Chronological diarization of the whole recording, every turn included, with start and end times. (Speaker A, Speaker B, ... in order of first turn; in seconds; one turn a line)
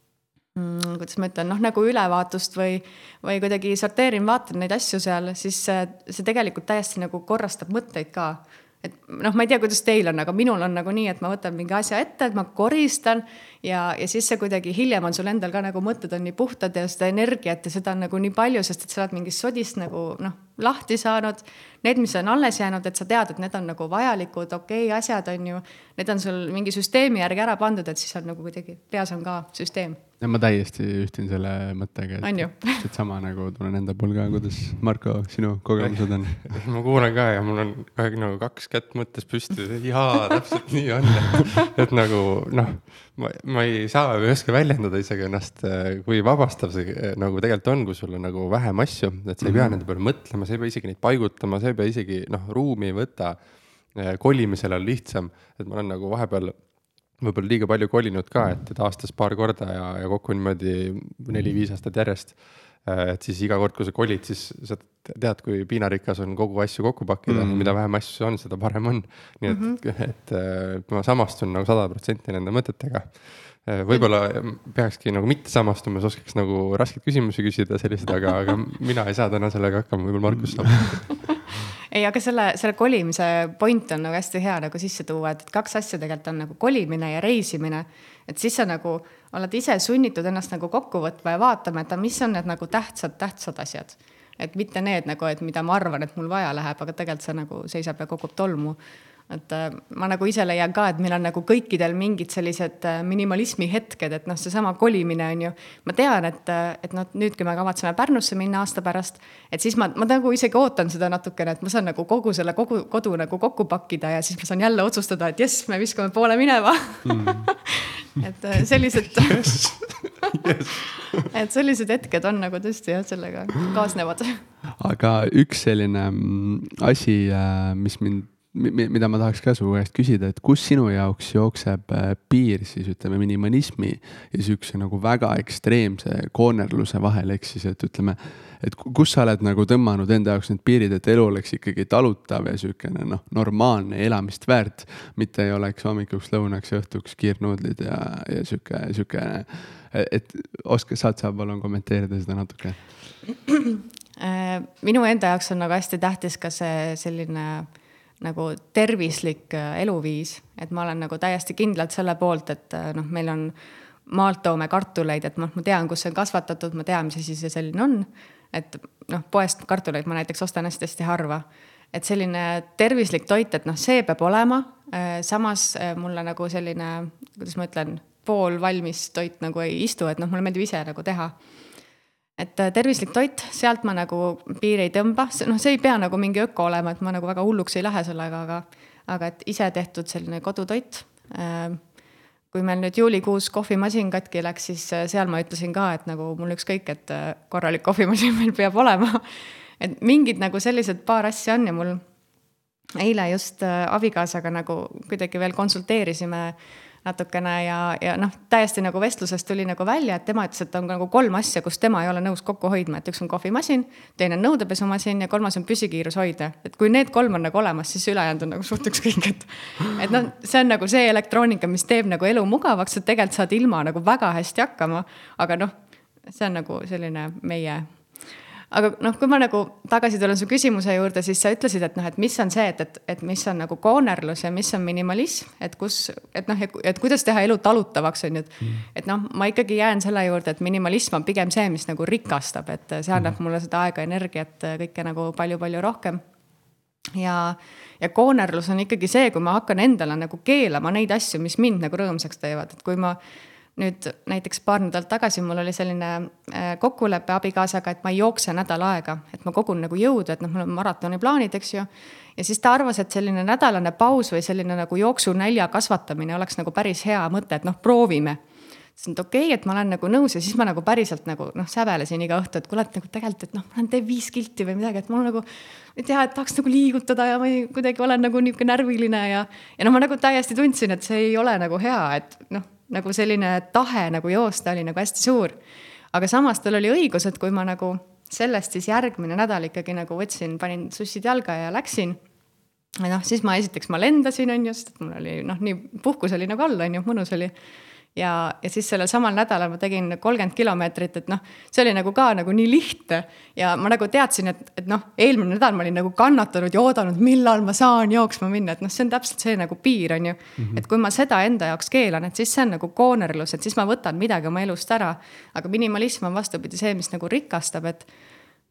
Speaker A: 0.6-30.0
Speaker B: 30.2-36.5
Speaker A: 32.2-32.9
Speaker C: 35.8-53.4
Speaker B: 49.4-49.8
Speaker C: 53.9-56.5
Speaker C: 57.2-81.5
Speaker B: 67.3-67.7
Speaker A: 69.5-69.8
Speaker A: 81.9-98.8
Speaker A: 99.3-119.7
Speaker B: 117.0-117.5
Speaker C: 120.3-120.7
Speaker A: 121.3-124.4
Speaker B: 124.8-152.8
Speaker A: 153.5-157.7
Speaker A: 158.2-163.5
Speaker A: 164.1-181.3
Speaker A: 182.4-191.8
Speaker A: 192.5-199.3
Speaker A: 199.8-202.0
Speaker A: 203.0-225.7
Speaker A: 226.3-227.9
Speaker A: 228.7-246.2
Speaker A: 247.2-253.2
Speaker A: 253.8-268.4
Speaker A: 269.0-285.6
Speaker A: 286.1-292.2
Speaker A: 293.0-297.5
Speaker A: 298.1-318.1
Speaker B: 310.6-310.8